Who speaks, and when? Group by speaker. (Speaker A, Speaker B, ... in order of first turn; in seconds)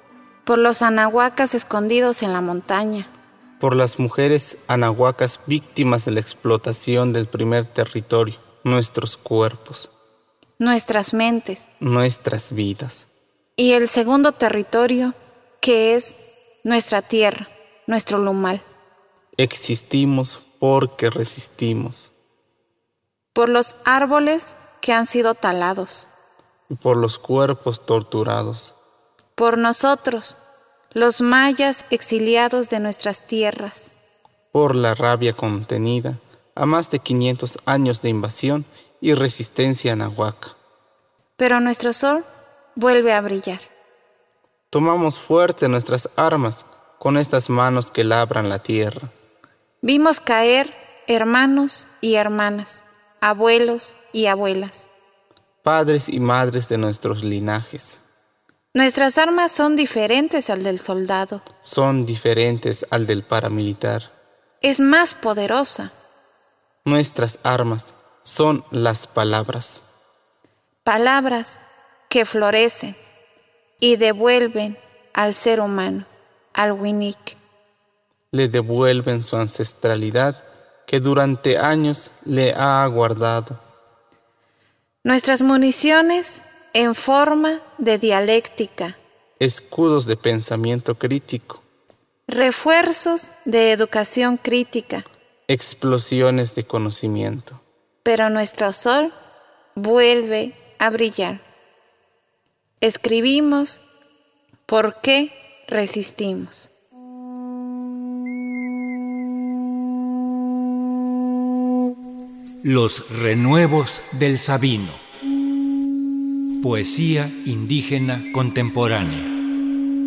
Speaker A: 0.4-3.1, 10.6-11.7, 13.6-18.6, 23.3-26.1, 29.3-30.4, 30.9-33.9, 41.4-43.7, 49.8-54.9, 58.7-61.4, 64.6-65.9, 70.8-73.0, 73.8-77.4, 85.0-89.0, 92.3-95.0, 98.0-99.1, 99.8-101.4, 102.8-103.8, 104.7-106.7
Speaker B: 3.6-9.9, 11.8-13.1, 19.4-22.1, 26.7-28.8, 34.5-40.5, 44.7-49.1, 55.6-58.0, 61.6-64.1, 66.8-69.8, 78.3-83.6, 89.4-91.6, 95.5-97.6
Speaker C: 112.6-115.0, 116.6-119.3